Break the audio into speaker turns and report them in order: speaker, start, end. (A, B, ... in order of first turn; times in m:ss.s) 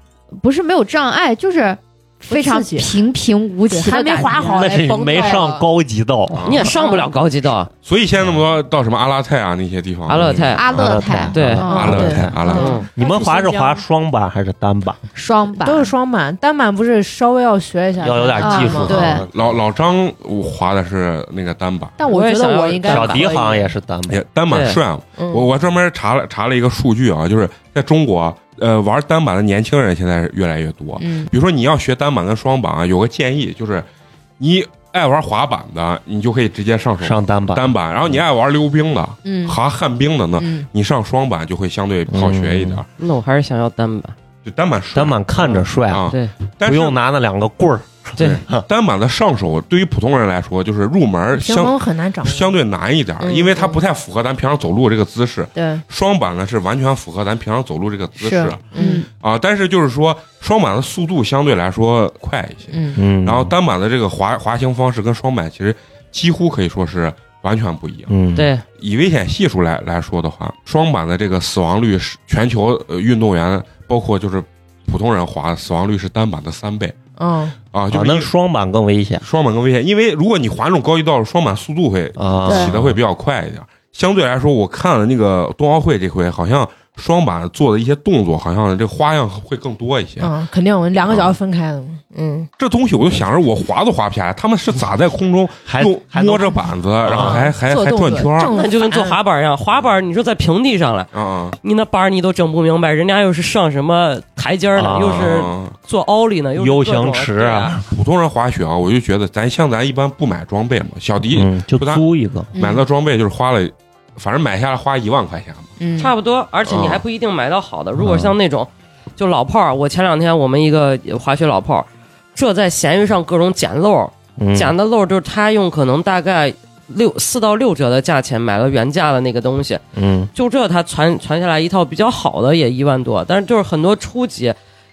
0:00.4-0:05.4 A
0:02.3-0:03.0 B
0:03.7-0:05.6 B
0:04.4-0:06.7 C
0:06.3-0:06.7 D
0:06.4-0:07.7 E
0:06.7-0:07.0 B
0:07.8-0:12.8 D
0:10.1-0:10.6 E
0:10.5-0:12.1 A
0:10.7-0:12.4 C
0:11.3-0:11.7 E
0:11.5-0:13.8 B
0:12.5-0:12.9 E
0:12.9-0:15.0 C
0:15.1-0:15.9 A
0:15.6-0:19.0 B
0:18.0-0:19.6 C
0:18.4-0:19.2 A
0:18.8-0:21.9 D
0:22.0-0:23.7 B
0:22.1-0:23.3 E
0:22.8-0:24.2 C
0:24.1-0:33.8 D
0:24.5-0:24.8 E
0:25.2-0:25.5 B
0:31.0-0:31.3 B
0:34.4-0:42.9 D
0:37.0-0:37.7 C
0:39.2-0:39.6 B
0:40.4-0:40.7 B
0:42.1-0:42.8 C
0:43.0-0:44.1 E
0:44.4-0:47.0 D
0:44.9-0:48.6 C
0:48.2-0:58.6 D
0:51.3-0:52.6 B
0:53.2-0:53.7 E
0:55.5-0:55.8 B
0:58.2-0:59.1 A
0:58.7-0:59.0 B
0:59.2-1:08.1 D
1:02.7-1:03.0 B
1:02.9-1:03.5 C
1:08.1-1:08.5 C
1:08.3-1:08.6 E
1:08.8-1:17.0 D
1:17.2-1:17.5 B
1:17.7-1:18.3 D
1:17.9-1:19.2 C
1:19.2-1:30.3 D
1:22.2-1:23.0 C
1:22.5-1:22.8 A
1:30.2-1:32.5 B
1:31.1-1:31.3 D
1:32.6-1:38.5 D
1:35.6-1:37.4 C
1:37.1-1:39.2 B
1:38.5-1:47.8 E
1:41.1-1:41.6 D
1:44.7-1:45.4 C
1:45.0-1:45.7 D
1:46.6-1:47.9 C
1:47.9-1:55.7 D
1:51.3-1:52.5 C
1:52.5-1:52.8 A
1:55.8-1:56.1 B
1:56.0-2:09.8 E
1:56.7-1:57.0 D
1:58.0-1:58.3 C
2:04.4-2:04.7 C
2:09.9-2:10.3 C
2:10.3-2:14.6 E